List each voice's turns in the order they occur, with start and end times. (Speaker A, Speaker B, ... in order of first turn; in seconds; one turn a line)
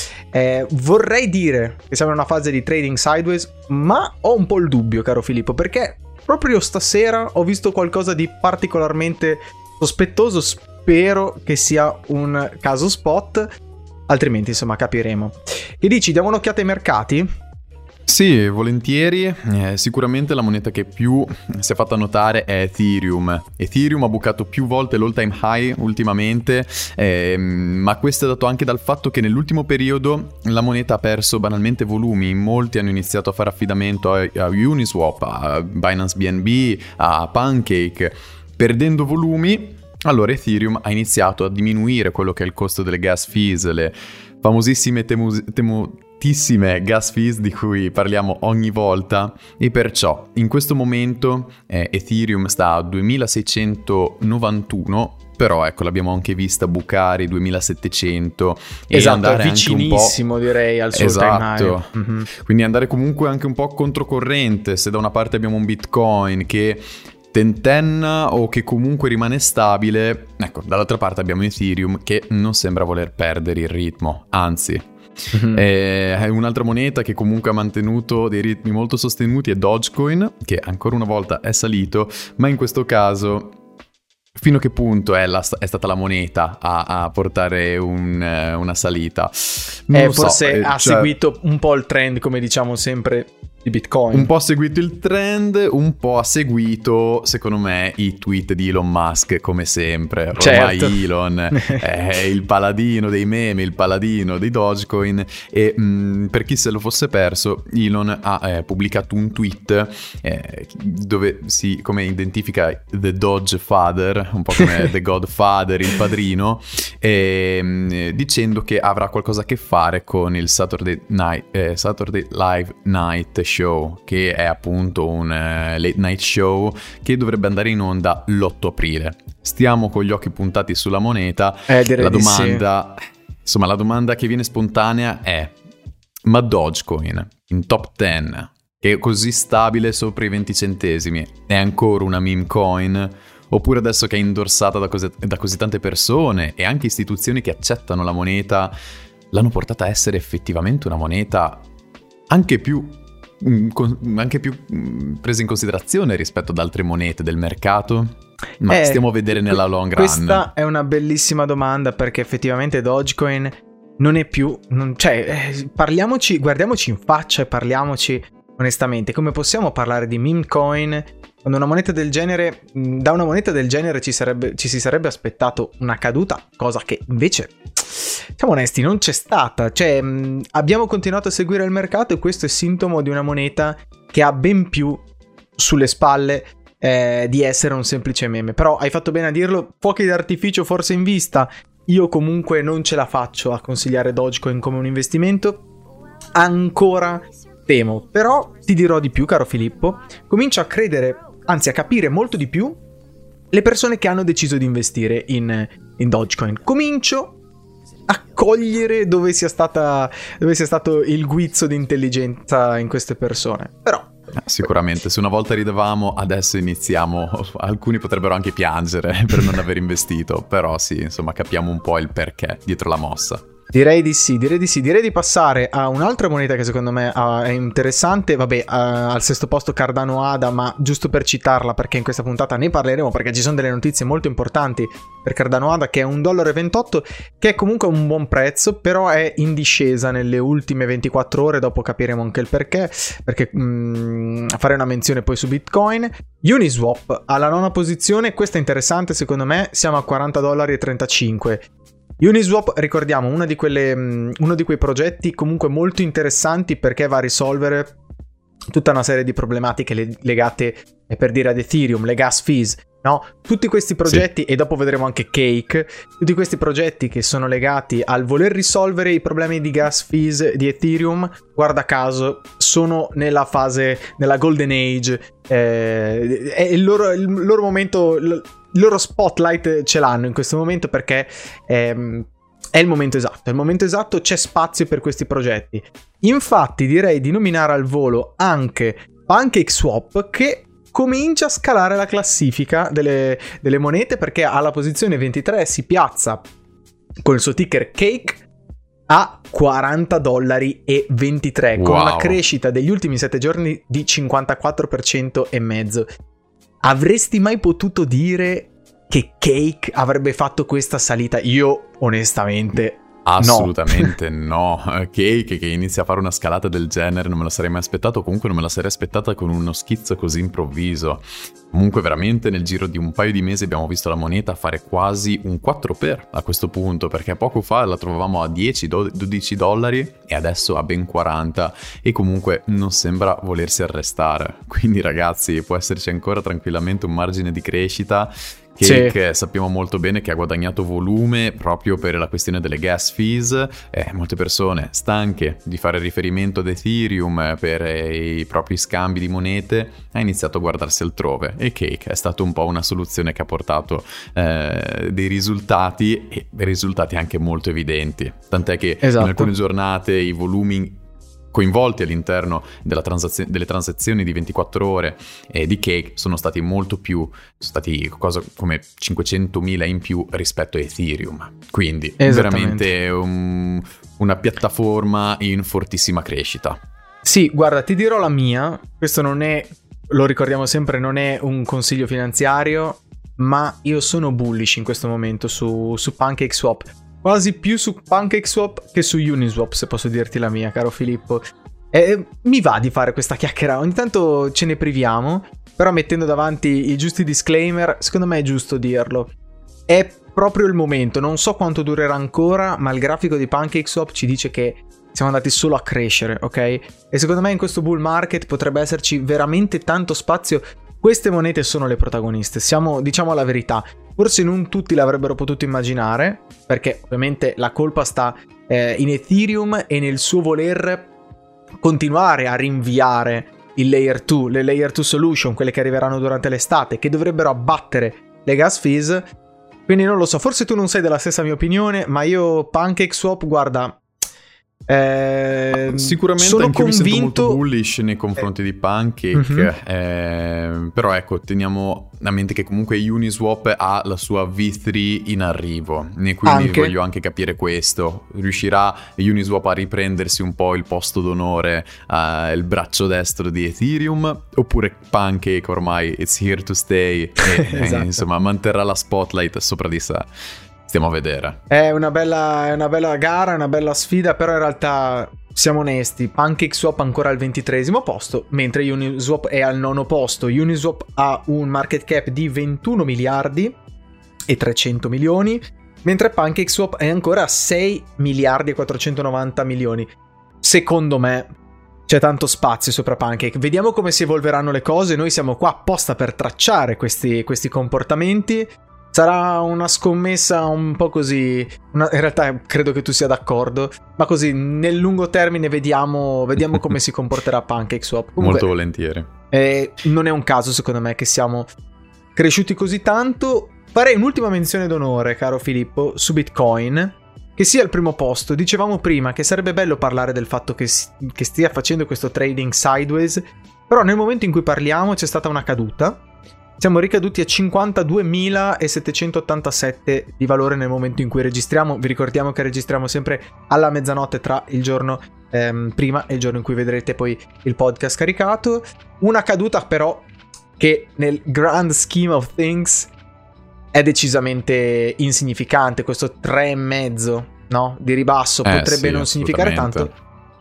Speaker A: 0.3-13.5
Speaker A: 14.1-17.3
Speaker B: 18.1-60.2
Speaker A: 58.9-62.3
Speaker B: 60.9-74.9
Speaker A: 75.3-75.6
Speaker B: 75.5-83.6
Speaker B: 84.4-91.1
Speaker A: 89.9-94.3
Speaker B: 94.1-135.6
Speaker A: 100.4-101.8
Speaker A: 131.7-132.6
Speaker B: 136.2-148.7
Speaker B: 149.3-151.7
Speaker B: 152.3-160.5
Speaker A: 158.7-185.0
Speaker A: 185.6-195.7
Speaker A: 196.3-202.8
Speaker A: 203.5-207.4
Speaker A: 208.1-214.1
Speaker B: 214.3-223.4
Speaker A: 223.7-251.7
Speaker A: 252.2-258.0
Speaker A: 258.7-296.4
Speaker A: 297.2-298.4
Speaker A: 299.1-306.1
Speaker B: 301.8-302.4
Speaker A: 306.8-314.1
Speaker B: 313.2-361.0
Speaker A: 338.8-339.1
Speaker A: 359.0-359.5
Speaker B: 361.5-376.8
Speaker A: 372.2-372.9
Speaker A: 377.2-399.3
Speaker A: 399.9-421.1
Speaker A: 421.8-429.3
Speaker A: 429.9-434.0
Speaker A: 434.9-437.6
Speaker B: 435.7-460.3
Speaker A: 439.3-439.7
Speaker A: 446.4-446.9
Speaker A: 457.4-458.2
Speaker B: 460.9-461.6
Speaker A: 461.7-473.8
Speaker A: 474.5-480.1
Speaker A: 480.6-481.5
Speaker A: 482.1-498.7
Speaker B: 498.4-499.3
Speaker A: 499.5-501.7
Speaker A: 502.4-516.2
Speaker A: 516.8-533.1
Speaker A: 533.9-540.1
Speaker B: 538.6-540.1